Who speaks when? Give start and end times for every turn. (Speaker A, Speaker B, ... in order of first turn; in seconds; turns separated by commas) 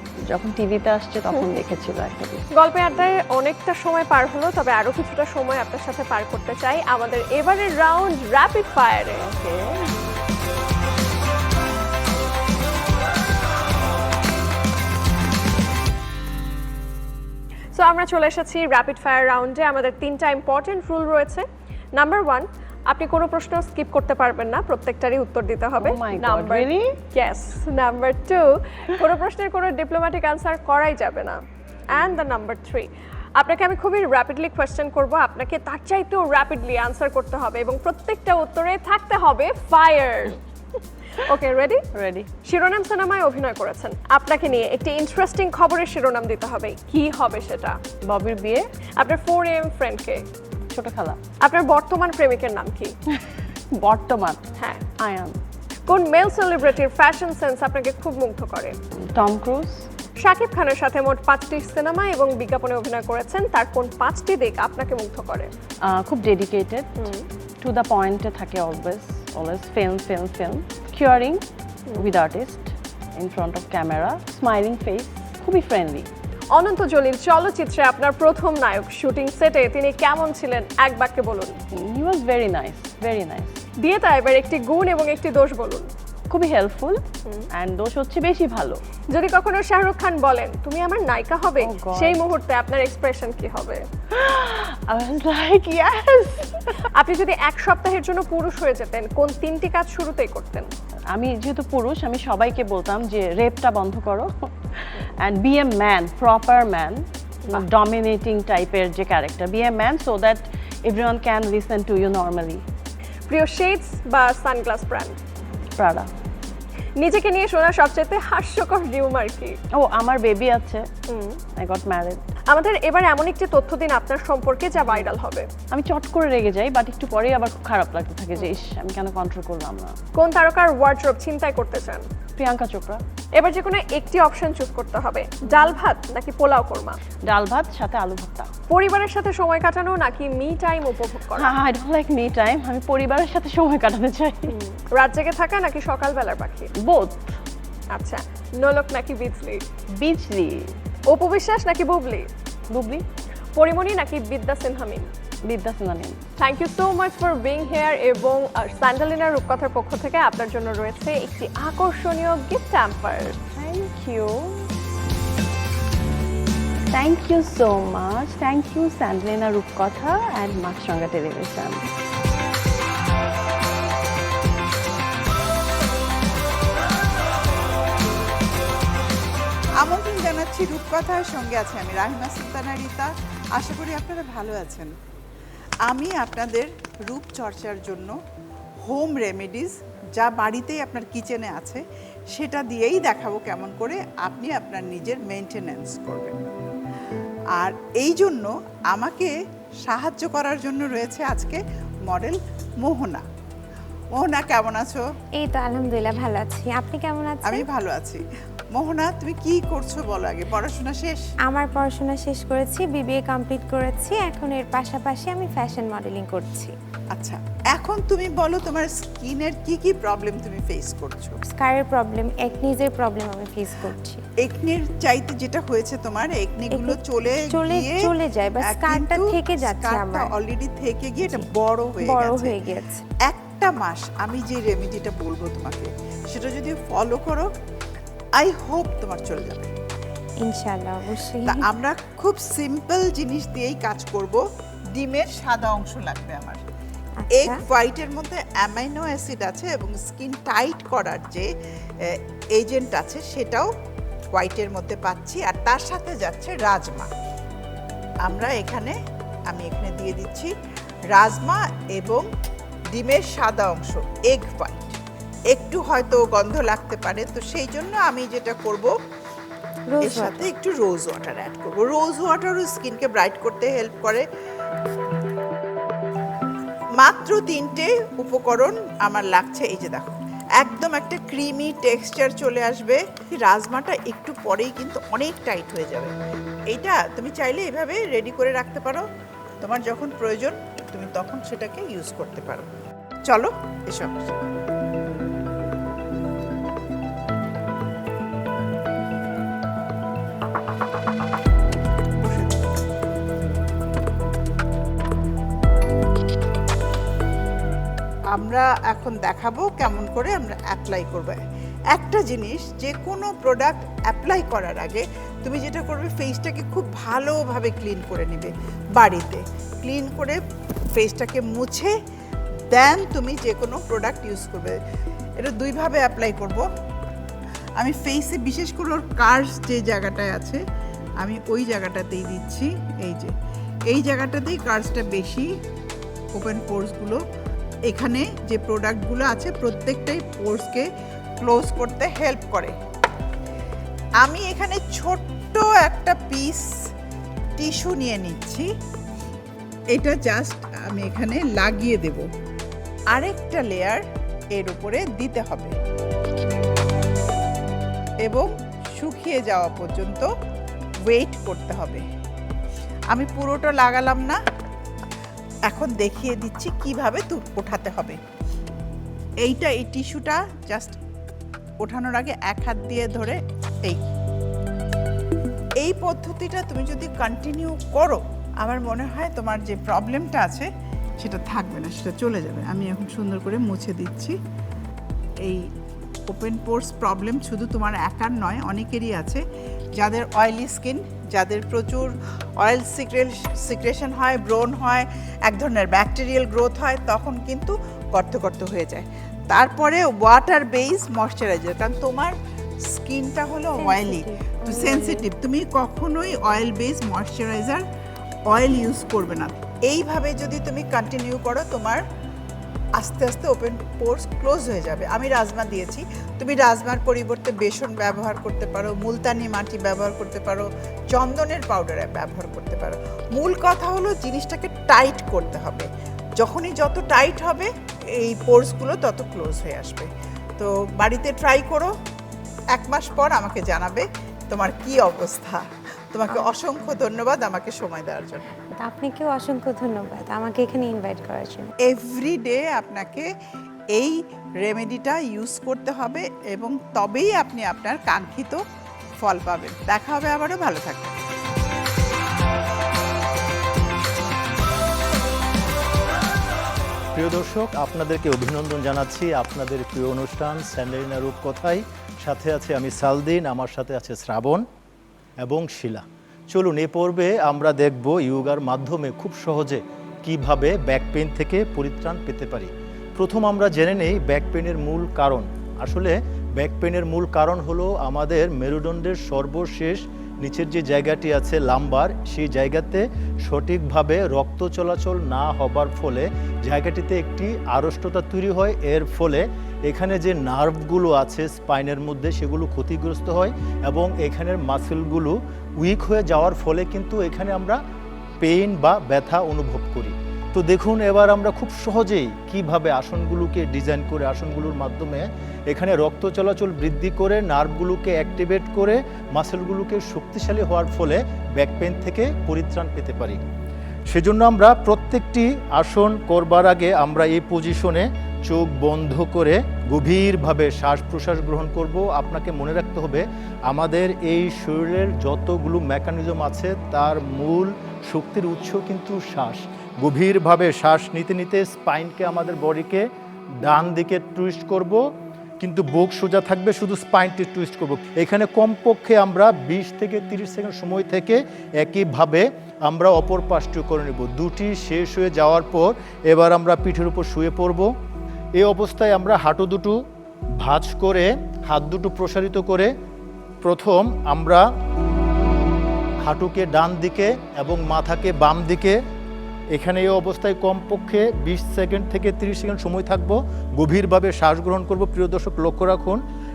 Speaker A: 0.3-2.4, Speaker B: 2.6-9.2, Speaker A: 9.2-9.9, Speaker B: 17.7-31.4, Speaker A: 25.8-26.9, Speaker B: 31.9-40.4, Speaker B: 41.2-41.8, Speaker A: 41.9-42.3, Speaker B: 42.5-47.8, Speaker A: 48.1-48.6, Speaker B: 49.0-50.2, Speaker A: 50.7-51.2, Speaker B: 51.4-52.9, Speaker A: 53.2-54.4, Speaker A: 55.0-55.4, Speaker B: 55.9-58.8, Speaker A: 59.1-59.9, Speaker B: 60.2-65.5, Speaker A: 65.9-67.0, Speaker B: 67.0-67.3, Speaker A: 67.6-71.4, Speaker A: 72.0-76.1, Speaker B: 76.5-81.5, Speaker A: 81.8-83.6, Speaker B: 83.8-85.9, Speaker A: 86.3-87.0, Speaker A: 87.5-88.8, Speaker B: 89.1-93.8, Speaker A: 91.6-92.3, Speaker A: 94.1-96.7, Speaker B: 97.0-100.7, Speaker A: 101.1-112.6, Speaker B: 113.3-115.2, Speaker A: 115.8-116.1, Speaker B: 117.0-119.5, Speaker A: 119.8-120.9, Speaker B: 121.1-121.4, Speaker A: 121.6-122.2, Speaker B: 122.5-125.5, Speaker A: 125.7-129.9, Speaker B: 130.2-132.0, Speaker A: 132.4-133.0, Speaker B: 133.4-137.0, Speaker A: 137.3-138.5, Speaker B: 138.7-141.5, Speaker A: 141.3-144.5, Speaker B: 144.5-146.7, Speaker A: 146.8-147.3, Speaker B: 147.9-149.6, Speaker A: 150.0-150.6, Speaker B: 151.1-152.3, Speaker A: 152.7-153.0, Speaker B: 153.6-155.1, Speaker A: 155.5-156.2, Speaker B: 156.4-163.3, Speaker A: 163.6-164.7, Speaker A: 166.9-171.9, Speaker C: 179.8-184.9, Speaker C: 185.9-188.1, Speaker C: 188.9-191.8, Speaker C: 192.3-196.4, Speaker C: 197.6-199.3, Speaker C: 199.8-203.2, Speaker C: 204.2-205.0, Speaker D: 205.4-207.7, Speaker C: 207.4-208.2, Speaker C: 208.7-211.2, Speaker D: 211.5-216.7, Speaker C: 217.2-221.4, Speaker D: 221.5-224.2, Speaker C: 224.4-228.1, Speaker D: 226.7-230.3, Speaker C: 228.7-232.6, Speaker D: 231.2-233.0, Speaker C: 233.3-237.5, Speaker C: 238.4-239.7, Speaker D: 240.4-241.7, Speaker C: 241.4-244.4, Speaker C: 244.9-246.6, Speaker D: 247.2-247.6, Speaker C: 247.3-251.5, Speaker C: 252.1-253.7, Speaker C: 254.3-257.1, Speaker C: 258.2-259.0, Speaker C: 259.5-260.5, Speaker C: 261.1-262.2, Speaker C: 262.9-265.0, Speaker C: 265.5-268.9, Speaker D: 269.9-270.5, Speaker C: 270.0-274.2, Speaker C: 277.0-286.1, Speaker C: 286.7-289.1, Speaker C: 289.6-292.7, Speaker C: 293.3-294.3, Speaker C: 308.4-311.4, Speaker C: 311.9-320.4, Speaker C: 320.9-321.9, Speaker C: 322.7-324.8, Speaker C: 325.4-326.6, Speaker C: 327.8-330.6, Speaker C: 331.2-333.3, Speaker C: 333.9-335.5, Speaker C: 336.4-337.2, Speaker C: 337.9-340.9, Speaker C: 341.4-342.7, Speaker C: 344.2-346.7, Speaker C: 347.6-348.7, Speaker C: 349.9-352.3, Speaker C: 353.1-354.0, Speaker C: 354.5-355.7, Speaker C: 358.2-360.3, Speaker C: 361.1-362.0, Speaker C: 363.1-364.4, Speaker C: 365.7-368.2, Speaker C: 369.4-371.0, Speaker C: 371.8-374.1, Speaker C: 375.8-380.7, Speaker C: 381.2-384.4, Speaker C: 386.3-389.4, Speaker C: 390.0-402.3, Speaker C: 402.9-407.8, Speaker D: 403.8-405.3, Speaker C: 408.5-412.0, Speaker C: 413.0-425.9, Speaker C: 426.4-427.7, Speaker C: 428.2-431.9, Speaker C: 432.7-435.6, Speaker C: 436.1-438.5, Speaker D: 438.8-441.7, Speaker C: 441.9-443.3, Speaker C: 443.9-448.6, Speaker C: 449.2-451.2, Speaker E: 457.2-464.6, Speaker E: 465.4-497.8, Speaker E: 498.4-513.4, Speaker E: 514.1-533.0, Speaker E: 533.6-535.0, Speaker E: 535.6-547.9, Speaker E: 548.6-550.0, Speaker E: 550.6-552.9, Speaker E: 553.6-554.6, Speaker E: 556.2-559.0, Speaker E: 559.7-566.2